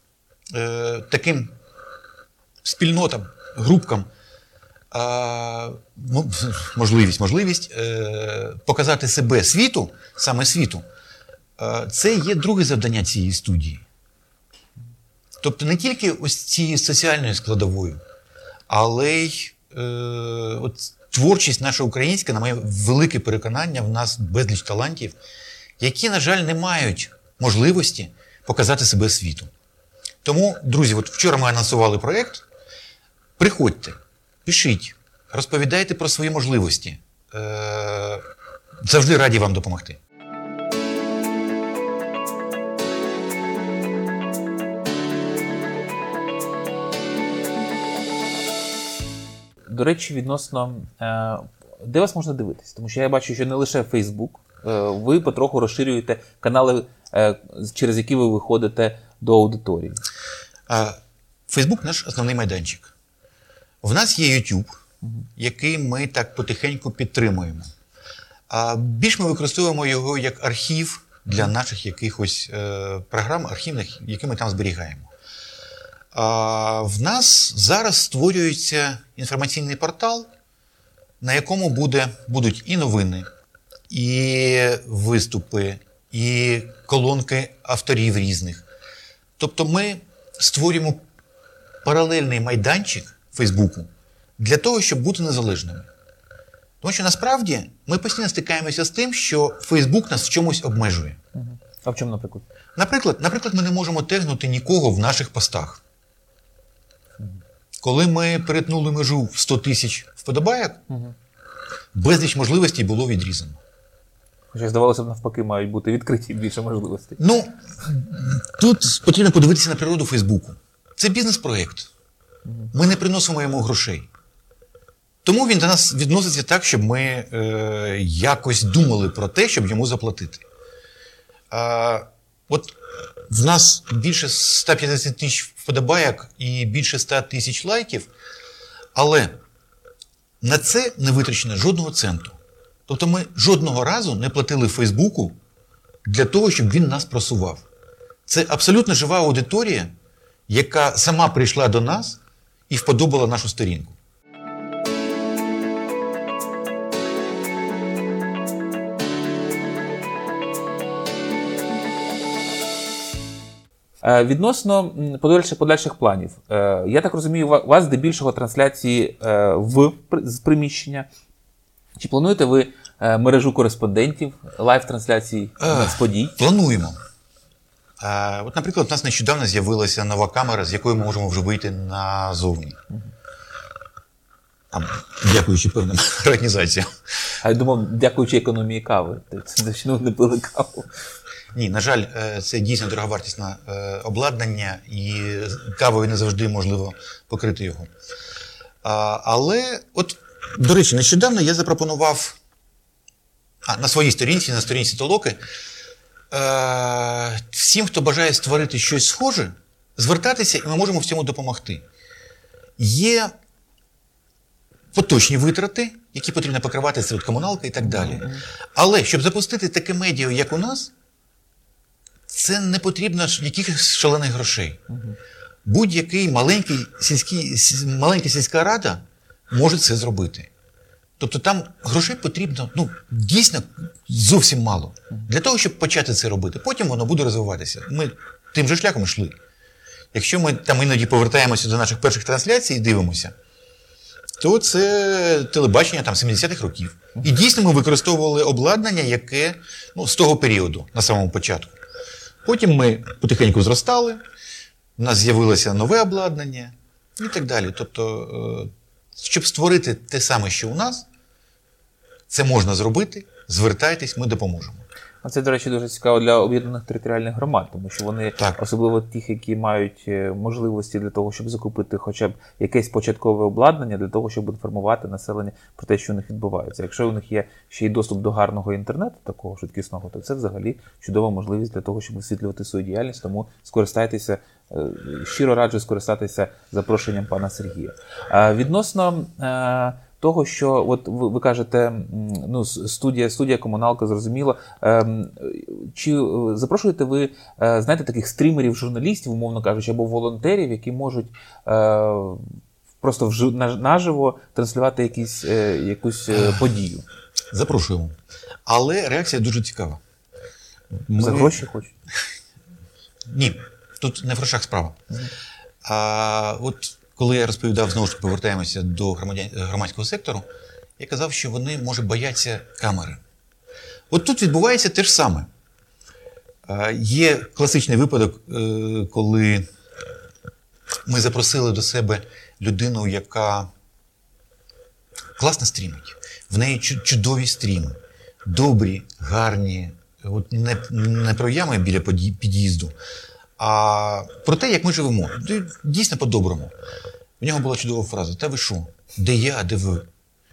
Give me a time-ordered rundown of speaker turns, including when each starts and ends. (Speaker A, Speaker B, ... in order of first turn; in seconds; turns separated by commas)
Speaker A: 0.5-1.5, Speaker A: 2.6-4.1, Speaker A: 4.9-10.8, Speaker A: 11.6-13.8, Speaker A: 15.4-18.0, Speaker A: 18.7-25.1, Speaker A: 25.8-29.5, Speaker A: 30.2-32.4, Speaker A: 33.4-38.2, Speaker A: 38.8-40.0, Speaker B: 49.7-60.0, Speaker A: 60.7-62.9, Speaker A: 63.8-64.8, Speaker A: 65.3-67.7, Speaker A: 68.5-75.1, Speaker A: 76.1-80.3, Speaker A: 81.2-83.3, Speaker A: 83.9-88.7, Speaker A: 89.4-91.0, Speaker A: 91.8-95.9, Speaker A: 96.8-101.2, Speaker B: 101.3-102.4, Speaker A: 102.8-105.8, Speaker A: 107.8-110.8, Speaker B: 110.9-111.1, Speaker A: 111.9-113.6, Speaker B: 114.5-117.2, Speaker A: 117.2-121.9, Speaker A: 122.7-124.1, Speaker A: 125.2-130.4, Speaker A: 131.5-132.8, Speaker A: 133.3-138.1, Speaker A: 138.9-139.4, Speaker A: 140.4-145.4, Speaker A: 146.0-147.6, Speaker A: 148.2-149.9, Speaker A: 150.5-153.9, Speaker B: 164.0-171.1, Speaker B: 172.0-176.4, Speaker A: 175.6-177.0, Speaker A: 178.0-182.8, Speaker A: 184.7-186.9, Speaker B: 187.4-190.9, Speaker A: 191.5-197.9, Speaker A: 198.8-202.4, Speaker A: 203.6-205.4, Speaker A: 206.3-211.8, Speaker A: 212.8-213.3, Speaker A: 214.9-220.9, Speaker B: 217.8-218.4, Speaker A: 222.3-224.8, Speaker B: 224.9-225.2, Speaker A: 225.6-230.5, Speaker A: 231.2-239.3, Speaker A: 240.1-243.3, Speaker A: 244.4-251.7, Speaker A: 252.4-254.2, Speaker A: 255.0-261.1, Speaker A: 262.3-264.8, Speaker B: 265.2-302.4, Speaker B: 303.0-307.0, Speaker A: 306.3-306.6, Speaker A: 307.5-308.1, Speaker A: 308.6-310.0, Speaker A: 310.9-311.6, Speaker B: 311.2-311.9, Speaker A: 313.3-315.0, Speaker A: 315.8-320.4, Speaker A: 321.0-323.2, Speaker A: 324.1-325.5, Speaker A: 326.7-329.7, Speaker A: 331.1-333.7, Speaker A: 335.4-342.9, Speaker A: 343.6-346.7, Speaker A: 347.4-350.1